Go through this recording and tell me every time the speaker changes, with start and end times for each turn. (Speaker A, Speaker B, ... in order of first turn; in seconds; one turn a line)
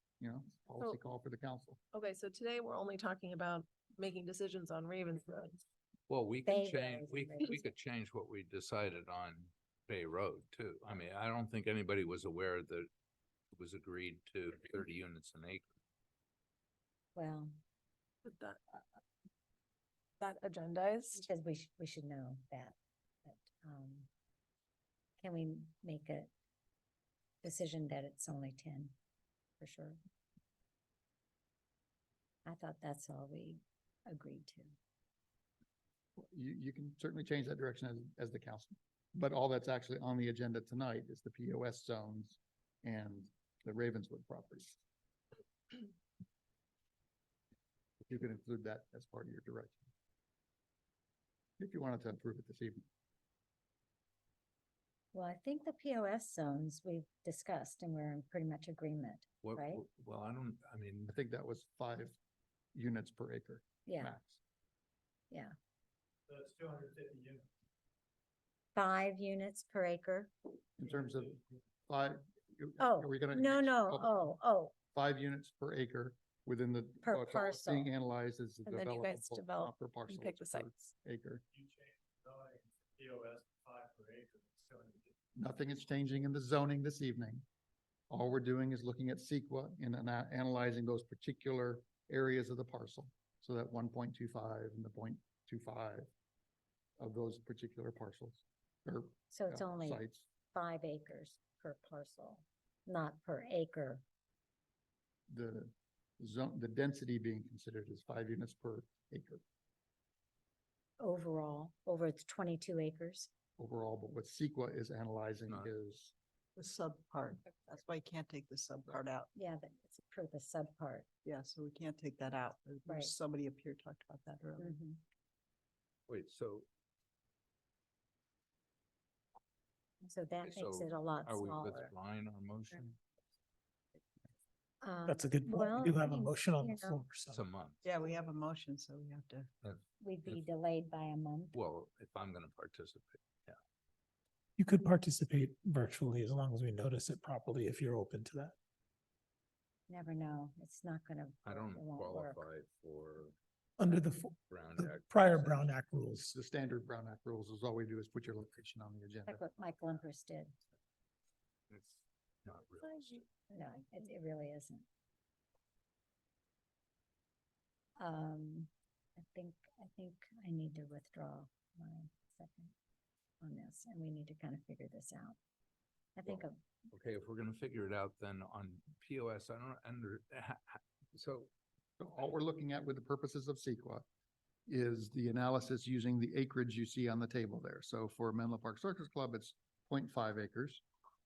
Speaker A: 0.2-1.8
Speaker B: 1.9-5.6
Speaker C: 6.1-12.9
Speaker D: 6.5-7.7
Speaker C: 13.5-15.7
Speaker D: 17.1-17.5
Speaker B: 18.2-18.6
Speaker B: 20.2-21.3
Speaker D: 21.1-24.1
Speaker D: 25.2-26.3
Speaker D: 27.4-28.9
Speaker D: 29.6-30.0
Speaker D: 32.4-34.7
Speaker A: 36.2-44.8
Speaker A: 48.0-49.8
Speaker A: 51.6-52.9
Speaker D: 55.1-59.8
Speaker C: 59.4-61.1
Speaker A: 61.1-62.1
Speaker A: 62.7-64.4
Speaker D: 63.9-64.1
Speaker E: 66.3-67.5
Speaker D: 68.8-70.3
Speaker A: 70.8-74.2
Speaker E: 70.8-71.4
Speaker D: 72.8-74.7
Speaker A: 74.9-81.4
Speaker D: 77.0-77.9
Speaker B: 78.7-80.9
Speaker E: 81.5-85.1
Speaker A: 85.3-87.4
Speaker A: 88.1-96.0
Speaker A: 97.0-100.3
Speaker D: 99.3-104.0
Speaker A: 105.3-109.4
Speaker D: 111.0-113.3
Speaker A: 113.6-116.1
Speaker C: 115.5-115.7
Speaker F: 116.5-119.3
Speaker D: 119.3-121.1
Speaker F: 121.2-124.8
Speaker D: 122.8-123.1
Speaker D: 124.6-125.0
Speaker C: 126.1-126.7
Speaker D: 130.0-131.9
Speaker C: 130.4-133.0
Speaker D: 134.8-137.0
Speaker G: 135.1-137.4
Speaker C: 137.3-137.9
Speaker F: 137.8-139.5
Speaker C: 139.6-140.4
Speaker D: 140.0-141.6
Speaker C: 141.5-143.6
Speaker G: 144.6-148.5
Speaker D: 149.9-152.4
Speaker C: 151.4-153.3
Speaker G: 153.8-156.3
Speaker C: 154.5-155.7
Speaker A: 156.3-159.4
Speaker D: 159.2-160.5
Speaker C: 161.7-163.2
Speaker B: 162.8-163.2
Speaker D: 163.5-164.8
Speaker D: 168.0-172.7
Speaker D: 173.4-175.4
Speaker D: 176.2-176.6
Speaker C: 176.2-181.5
Speaker A: 182.0-184.0
Speaker A: 184.7-190.8